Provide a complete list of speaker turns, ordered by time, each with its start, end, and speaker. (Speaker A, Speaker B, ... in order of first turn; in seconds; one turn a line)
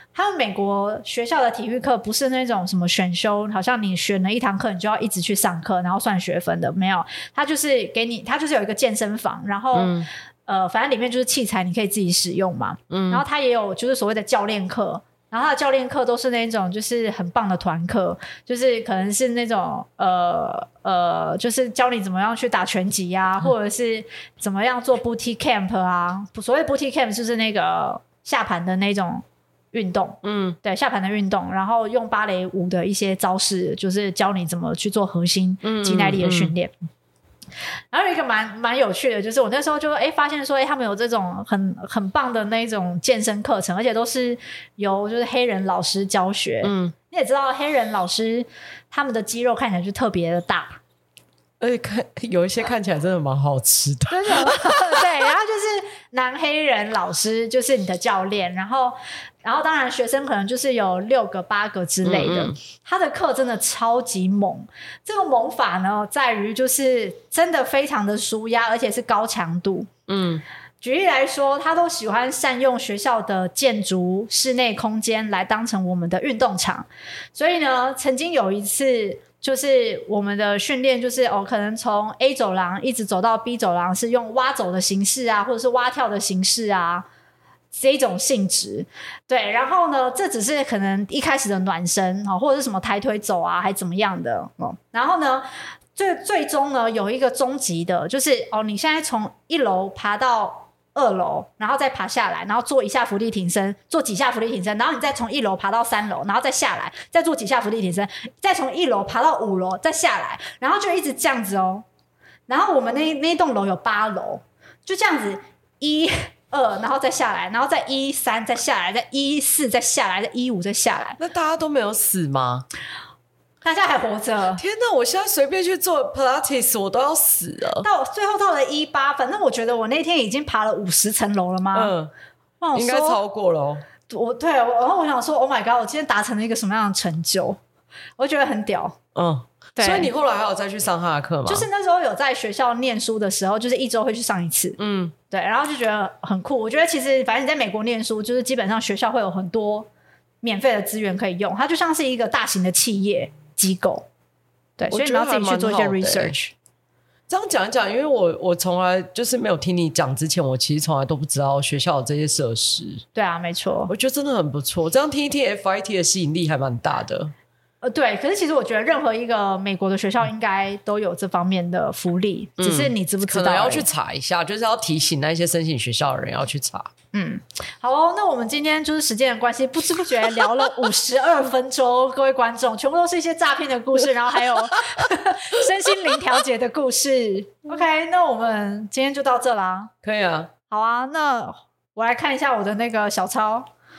Speaker A: 0.1-36.7
Speaker B: 9.8-10.1
Speaker B: 12.9-13.2
Speaker B: 30.2-30.6
Speaker B: 35.6-36.5
Speaker A: 37.9-50.8
Speaker B: 46.6-46.9
Speaker B: 51.6-55.0
Speaker A: 54.1-69.9
Speaker B: 62.0-62.6
Speaker B: 70.1-70.4
Speaker A: 70.8-87.1
Speaker A: 87.7-111.8
Speaker A: 112.5-121.2
Speaker B: 121.2-122.7
Speaker A: 123.6-124.6
Speaker B: 124.6-127.9
Speaker A: 127.8-131.9
Speaker B: 131.7-132.1
Speaker A: 132.6-133.2
Speaker B: 132.7-133.8
Speaker A: 134.1-137.6
Speaker A: 138.2-139.0
Speaker B: 139.2-141.7
Speaker A: 139.8-140.1
Speaker A: 141.5-144.8
Speaker B: 144.8-145.1
Speaker A: 145.3-149.9
Speaker A: 150.4-154.1
Speaker A: 154.8-156.5
Speaker B: 154.9-156.4
Speaker B: 157.3-163.1
Speaker A: 163.2-163.9
Speaker B: 163.9-167.3
Speaker A: 167.8-173.9
Speaker B: 172.6-176.9
Speaker A: 177.1-189.9
Speaker B: 190.0-190.5
Speaker A: 190.7-193.7